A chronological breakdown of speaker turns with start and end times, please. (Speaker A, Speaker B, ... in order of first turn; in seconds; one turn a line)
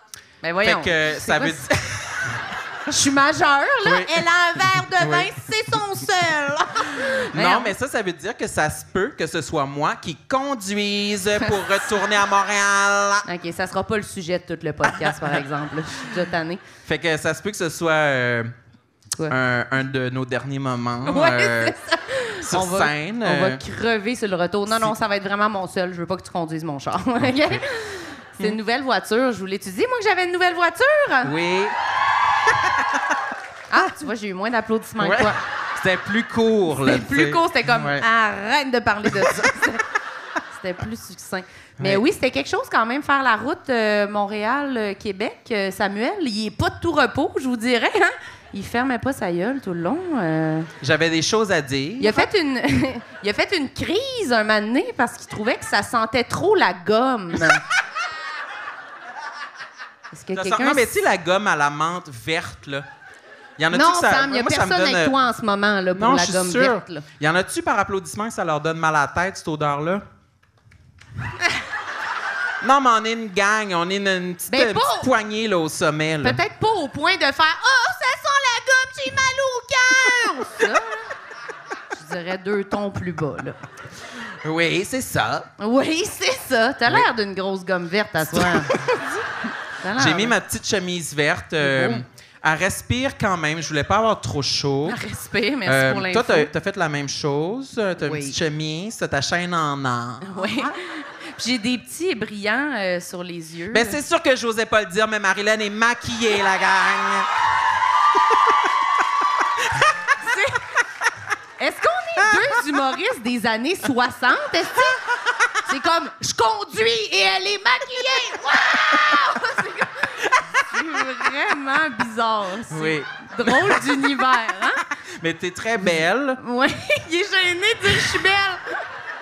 Speaker A: 0.4-1.6
Speaker B: 0.6-2.5
Speaker A: 2.9-7.8
Speaker B: 3.8-5.3
Speaker B: 7.0-13.2
Speaker A: 13.2-16.6
Speaker B: 15.0-15.3
Speaker B: 16.8-18.5
Speaker B: 19.3-21.8
Speaker A: 21.1-31.3
Speaker B: 22.4-23.6
Speaker B: 31.2-31.8
Speaker B: 32.5-32.8
Speaker A: 33.7-35.4
Speaker B: 35.0-38.0
Speaker A: 36.8-39.8
Speaker A: 40.5-50.7
Speaker B: 50.8-52.3
Speaker A: 52.0-57.6
Speaker A: 60.1-60.9
Speaker B: 60.3-62.9
Speaker B: 63.6-65.1
Speaker A: 63.7-67.0
Speaker B: 65.9-70.0
Speaker B: 72.6-76.4
Speaker A: 74.5-75.1
Speaker A: 76.2-81.1
Speaker A: 81.9-83.6
Speaker B: 84.4-85.5
Speaker A: 85.6-89.1
Speaker B: 88.3-88.9
Speaker A: 89.8-90.3
Speaker B: 90.0-95.0
Speaker A: 91.6-92.0
Speaker A: 94.9-96.5
Speaker B: 95.7-100.4
Speaker A: 98.0-98.4
Speaker A: 100.2-104.0
Speaker B: 103.7-107.3
Speaker A: 110.2-110.6
Speaker A: 111.6-115.0
Speaker A: 115.6-124.8
Speaker B: 122.7-124.0
Speaker B: 125.2-126.4
Speaker A: 125.8-128.8